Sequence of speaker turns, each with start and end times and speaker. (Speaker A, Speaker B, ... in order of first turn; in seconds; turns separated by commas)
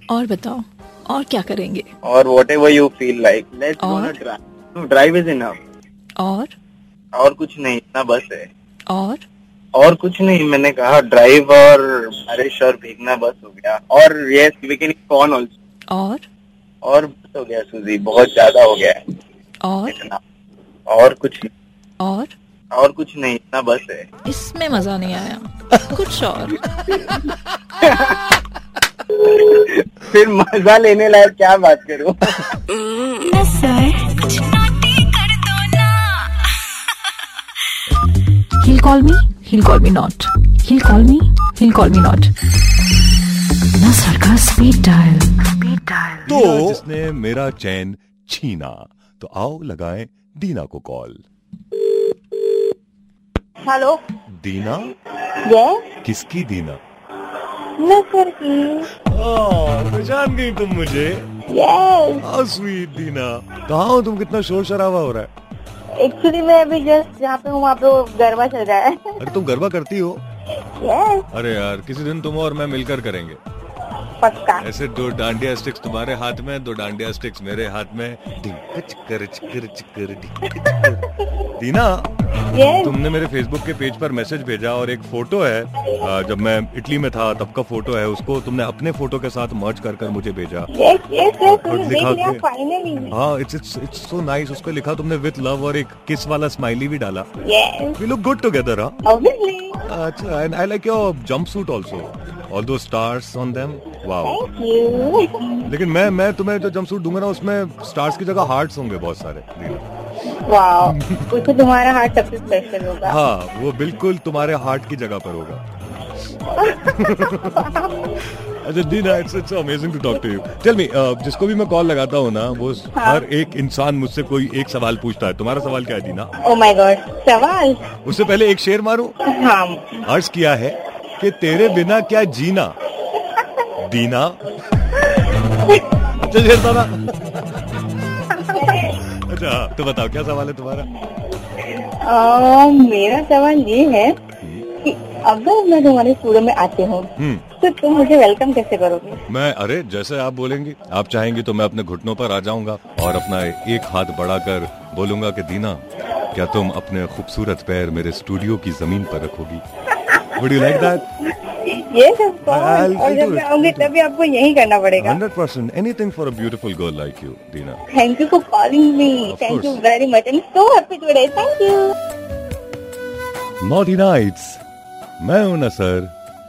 Speaker A: 0.1-1.9, Speaker B: 2.0-5.6, Speaker A: 3.8-4.2, Speaker A: 6.2-6.5, Speaker B: 7.2-8.5, Speaker A: 8.9-9.2, Speaker B: 9.8-15.5, Speaker A: 15.9-16.2, Speaker B: 16.8-19.0, Speaker A: 19.6-20.0, Speaker B: 19.9-20.2, Speaker B: 20.9-21.5, Speaker A: 22.0-22.3, Speaker B: 22.7-24.1, Speaker A: 24.3-26.6, Speaker B: 27.8-28.2, Speaker B: 29.1-32.3, Speaker A: 33.2-34.4, Speaker A: 38.6-42.3, Speaker A: 43.8-46.2, Speaker C: 46.3-51.2, Speaker D: 53.6-54.0, Speaker C: 54.3-54.9, Speaker D: 55.5-55.9, Speaker C: 56.0-56.8, Speaker D: 57.8-58.9, Speaker C: 59.1-61.3, Speaker D: 61.5-62.3, Speaker C: 62.2-65.3, Speaker D: 66.0-69.2, Speaker C: 69.2-70.2, Speaker D: 70.8-71.3, Speaker C: 71.3-73.4, Speaker D: 74.2-74.7, Speaker C: 74.6-82.1, Speaker D: 80.5-80.9, Speaker D: 82.5-83.0, Speaker C: 82.6-90.7, Speaker D: 90.7-93.1, Speaker C: 91.5-92.4, Speaker C: 93.1-97.3, Speaker D: 97.4-98.0, Speaker C: 98.0-99.0, Speaker D: 99.0-99.8, Speaker C: 99.8-104.4, Speaker D: 104.2-105.6, Speaker C: 105.7-109.9, Speaker D: 110.3-113.2, Speaker C: 110.8-111.3, Speaker C: 113.0-115.6, Speaker D: 116.6-117.9, Speaker C: 116.7-126.3, Speaker D: 122.9-123.2, Speaker D: 126.4-127.8, Speaker C: 128.0-129.2, Speaker D: 129.3-130.0, Speaker C: 130.1-132.7, Speaker C: 133.8-134.4, Speaker D: 135.4-135.8, Speaker C: 136.0-137.5, Speaker D: 138.3-138.9, Speaker C: 138.8-140.9, Speaker D: 141.6-144.2, Speaker C: 144.4-144.7, Speaker D: 144.7-149.2, Speaker C: 147.2-147.5, Speaker C: 149.3-159.6, Speaker C: 160.2-161.1, Speaker D: 160.6-165.2, Speaker C: 162.5-163.9, Speaker C: 165.0-167.8, Speaker D: 167.9-171.9, Speaker C: 169.2-169.8, Speaker C: 173.6-174.6, Speaker C: 175.2-176.1